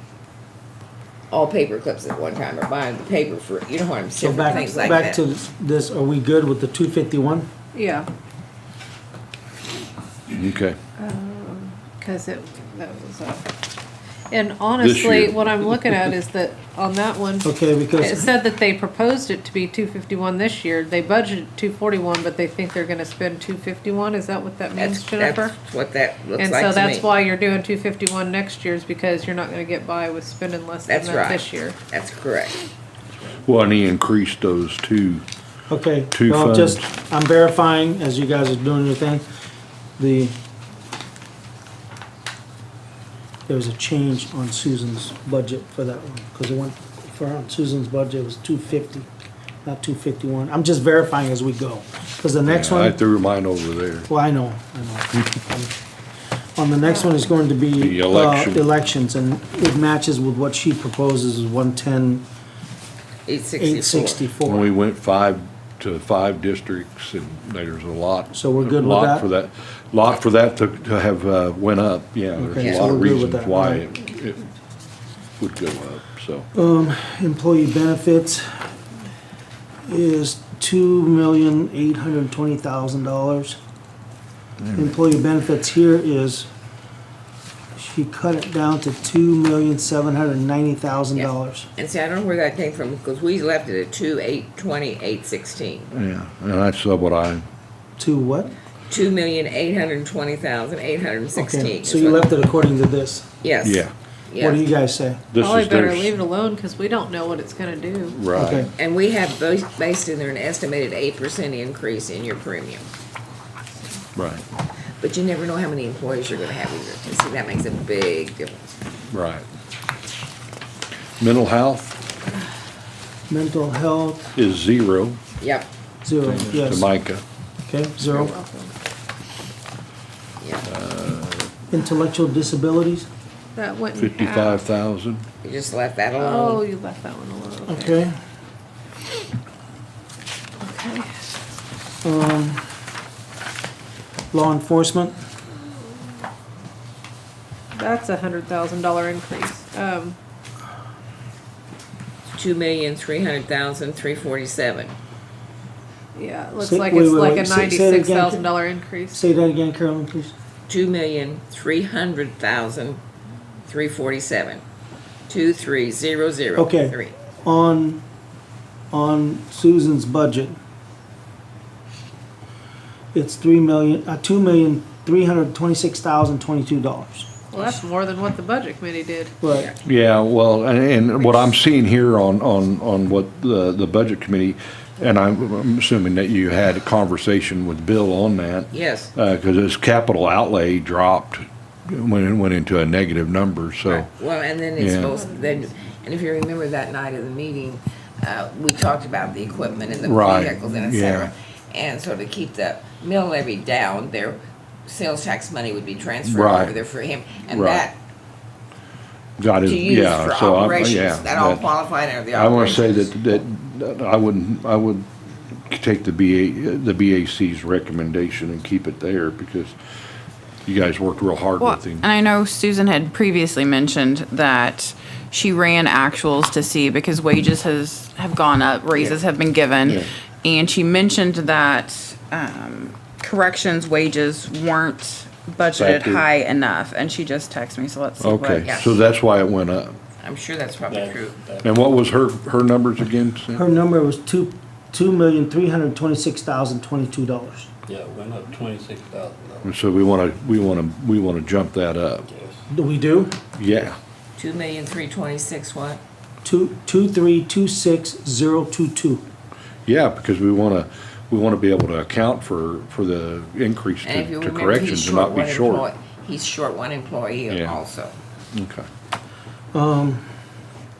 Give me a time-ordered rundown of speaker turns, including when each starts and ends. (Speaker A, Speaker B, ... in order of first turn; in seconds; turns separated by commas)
Speaker A: 1.3-5.2, Speaker B: 4.2-7.5, Speaker C: 4.5-5.0, Speaker C: 7.7-8.1, Speaker D: 10.3-10.8, Speaker C: 11.0-13.5, Speaker C: 14.3-25.5, Speaker D: 14.8-16.0, Speaker B: 17.4-18.3, Speaker A: 24.8-27.1, Speaker C: 26.4-31.8, Speaker A: 30.9-32.6, Speaker D: 33.3-35.2, Speaker B: 35.7-39.2, Speaker D: 36.1-36.8, Speaker B: 40.0-40.3, Speaker B: 43.5-49.1, Speaker B: 49.6-53.0, Speaker D: 52.5-54.1, Speaker B: 54.1-55.7, Speaker B: 56.5-62.2, Speaker C: 56.8-57.2, Speaker D: 57.8-58.7, Speaker A: 63.3-64.2, Speaker B: 63.6-64.7, Speaker D: 64.4-74.5, Speaker B: 68.3-69.3, Speaker B: 72.3-73.8, Speaker A: 72.6-72.9, Speaker D: 75.4-76.5, Speaker B: 76.5-78.5, Speaker B: 79.9-83.6, Speaker D: 84.6-85.0, Speaker B: 84.7-86.5, Speaker B: 87.8-91.7, Speaker A: 91.1-95.9, Speaker D: 95.9-97.4, Speaker B: 98.0-98.5, Speaker A: 98.9-102.3, Speaker B: 101.3-103.3, Speaker A: 103.4-104.7, Speaker D: 103.6-103.9, Speaker B: 104.4-105.2, Speaker D: 105.3-106.1, Speaker C: 105.4-108.2, Speaker D: 108.1-108.7, Speaker B: 108.3-108.7, Speaker A: 108.8-112.8, Speaker D: 114.2-114.4, Speaker A: 115.0-118.8, Speaker D: 119.1-119.4, Speaker D: 121.2-122.0, Speaker B: 123.3-124.3, Speaker D: 124.3-125.2, Speaker A: 125.4-125.7, Speaker B: 126.0-126.9, Speaker D: 126.2-127.2, Speaker B: 127.7-128.3, Speaker C: 128.1-128.7, Speaker A: 130.4-130.7, Speaker D: 130.7-131.5, Speaker B: 131.7-133.1, Speaker C: 133.6-134.6, Speaker D: 133.9-135.2, Speaker A: 135.4-136.6, Speaker C: 136.2-138.0, Speaker B: 137.7-138.2, Speaker C: 140.6-141.2, Speaker B: 142.0-142.7, Speaker B: 144.3-145.2, Speaker C: 147.7-150.2, Speaker A: 152.3-154.9, Speaker C: 156.1-159.2, Speaker B: 156.6-158.5, Speaker B: 159.1-160.3, Speaker A: 160.7-163.0, Speaker A: 163.7-164.6, Speaker A: 165.3-167.1, Speaker B: 166.6-168.0, Speaker B: 168.9-170.6, Speaker B: 173.1-177.3, Speaker C: 177.5-179.3, Speaker B: 179.4-179.7, Speaker A: 179.5-179.8, Speaker D: 179.8-194.1, Speaker A: 188.7-189.1, Speaker A: 193.9-208.0, Speaker D: 194.8-195.1, Speaker D: 200.0-201.3, Speaker D: 206.2-206.8, Speaker D: 207.5-207.9, Speaker D: 209.4-211.7, Speaker A: 209.6-213.4, Speaker D: 212.3-215.1, Speaker D: 215.7-219.8, Speaker D: 220.7-222.1, Speaker E: 221.6-238.7, Speaker D: 235.7-236.2, Speaker D: 238.2-240.0, Speaker A: 238.6-238.9, Speaker A: 240.2-241.4, Speaker F: 240.9-241.8, Speaker D: 241.6-243.6, Speaker B: 243.5-247.7, Speaker F: 247.9-249.7, Speaker D: 249.6-252.3, Speaker F: 252.3-252.6, Speaker B: 252.7-253.3, Speaker D: 253.6-254.0, Speaker A: 254.3-256.0, Speaker B: 256.4-259.2, Speaker D: 259.9-265.9, Speaker A: 264.0-268.1, Speaker D: 267.5-267.8, Speaker D: 268.5-268.9, Speaker B: 269.7-270.2